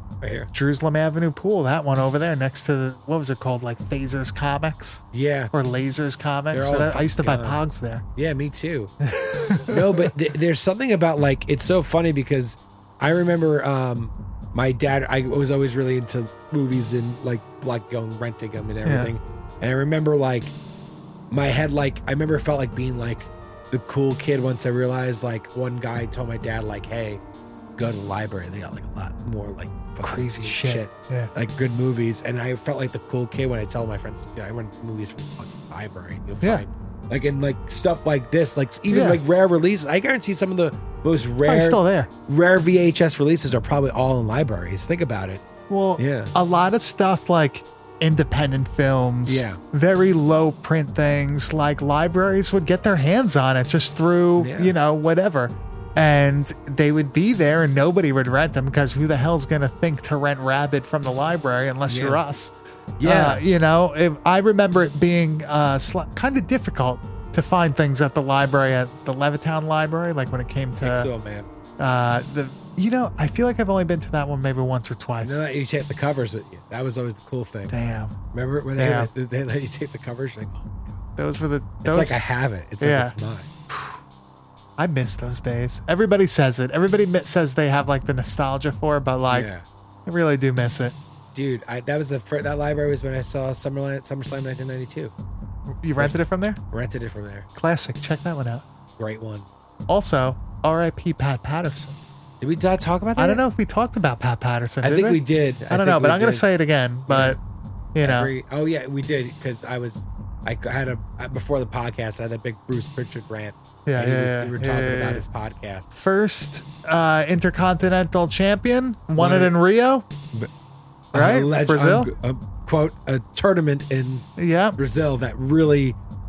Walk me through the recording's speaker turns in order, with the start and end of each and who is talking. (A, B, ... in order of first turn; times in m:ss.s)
0:00.2-0:00.5 A
0:00.5-0:08.0 B
0:05.1-0:05.5 A
0:06.5-0:07.6 A
0:08.2-0:08.9 A
0:09.0-0:10.1 B
0:09.7-0:20.5 A
0:18.8-0:19.1 B
0:21.3-0:27.2 A
0:27.8-0:45.4 A
0:30.0-0:31.3 B
0:38.9-0:39.2 B
0:41.4-0:42.1 B
0:45.7-1:11.1 B
0:46.0-0:46.3 A
0:49.3-0:49.6 A
0:54.4-0:54.8 A
1:01.9-1:02.2 A
1:03.0-1:03.4 A
1:10.8-1:11.5 A
1:11.8-1:15.4 B
1:15.2-1:17.8 A
1:17.7-1:18.2 B
1:18.3-1:21.0 A
1:18.8-1:19.1 B
1:21.2-1:22.2 B
1:21.8-1:23.5 A
1:22.8-1:23.1 B
1:23.7-1:24.0 B
1:24.8-1:29.5 B
1:29.3-1:29.6 A
1:30.1-1:31.0 B
1:31.3-1:35.1 A
1:35.8-1:36.6 B
1:36.7-1:37.5 A
1:37.6-1:38.6 B
1:39.0-1:39.5 A
1:39.9-1:42.0 B
1:42.4-1:43.4 A
1:43.2-1:47.4 B
1:44.8-1:46.5 A
1:47.1-1:47.4 A
1:48.0-1:48.3 B
1:48.0-1:55.9 A
1:53.9-1:55.2 B
1:55.9-2:00.1 B
1:59.2-1:59.6 A
2:01.1-2:04.2 A
2:01.1-2:02.1 B
2:04.4-2:04.8 B
2:04.8-2:06.0 A